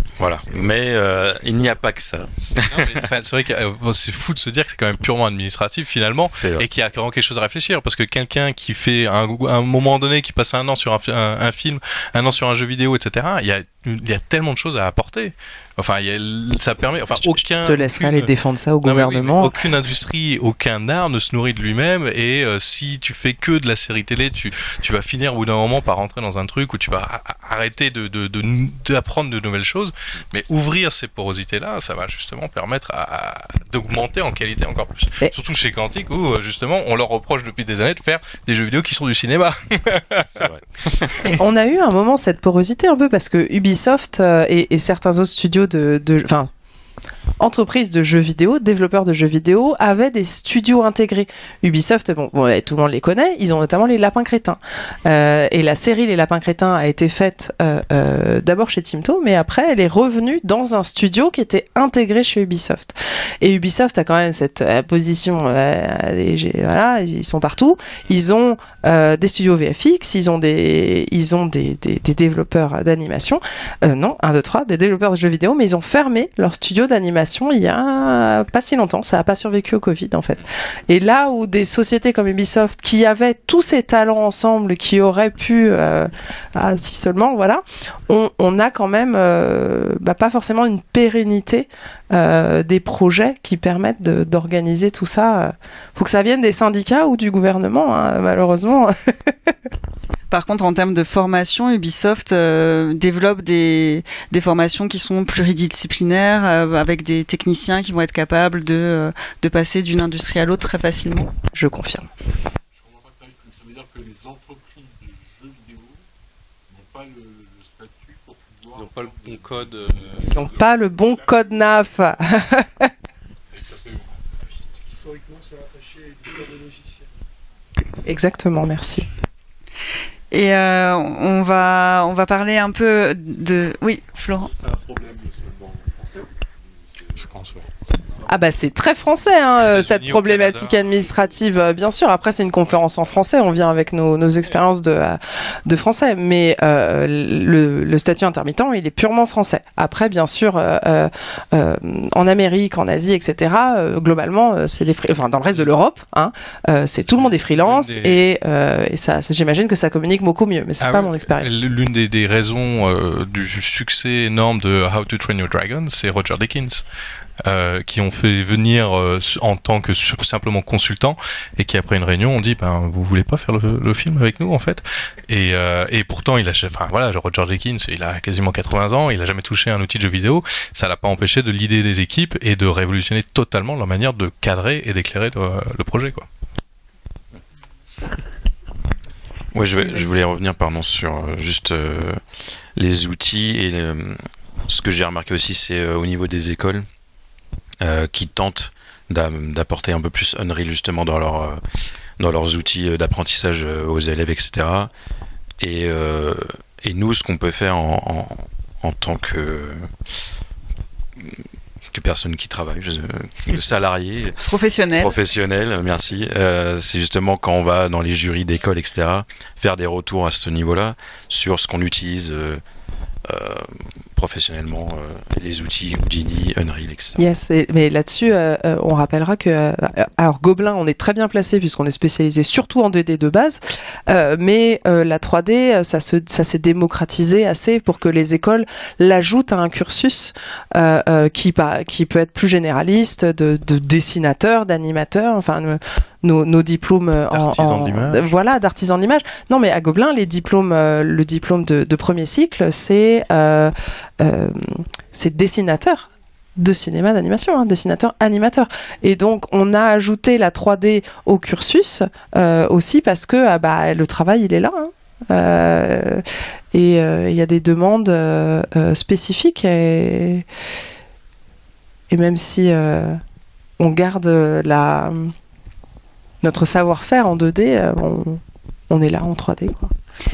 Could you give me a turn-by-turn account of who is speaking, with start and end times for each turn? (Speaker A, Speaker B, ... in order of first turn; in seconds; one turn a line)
Speaker A: 0.2-3.0
Speaker B: 2.7-18.3
Speaker A: 6.3-6.7
Speaker C: 17.2-19.5
Speaker B: 18.8-40.5
Speaker A: 40.3-41.4
Speaker B: 41.1-41.4
Speaker C: 41.3-46.5
Speaker C: 47.4-99.5
Speaker D: 100.3-111.3
Speaker C: 111.5-112.1
Speaker E: 112.7-116.0
Speaker E: 116.7-122.2
Speaker B: 118.7-120.1
Speaker C: 120.2-122.8
Speaker E: 123.5-127.0
Speaker C: 128.0-129.1
Speaker D: 130.3-134.5
Speaker E: 134.2-138.7
Speaker C: 138.2-161.5
Speaker B: 139.6-140.8
Speaker B: 157.0-158.2
Speaker B: 160.8-166.8
Speaker B: 167.4-186.2
Speaker A: 189.5-192.2
Speaker A: 192.8-196.8
Speaker A: 197.8-201.6
Speaker A: 202.2-204.9
Speaker A: 205.6-209.9
Speaker A: 211.9-222.6
Speaker D: 214.4-215.1
Speaker A: 223.2-227.2
Speaker C: 227.2-270.4
Speaker B: 247.3-248.3
Speaker C: 272.1-273.2
Speaker C: 273.8-275.3
Speaker C: 276.4-279.9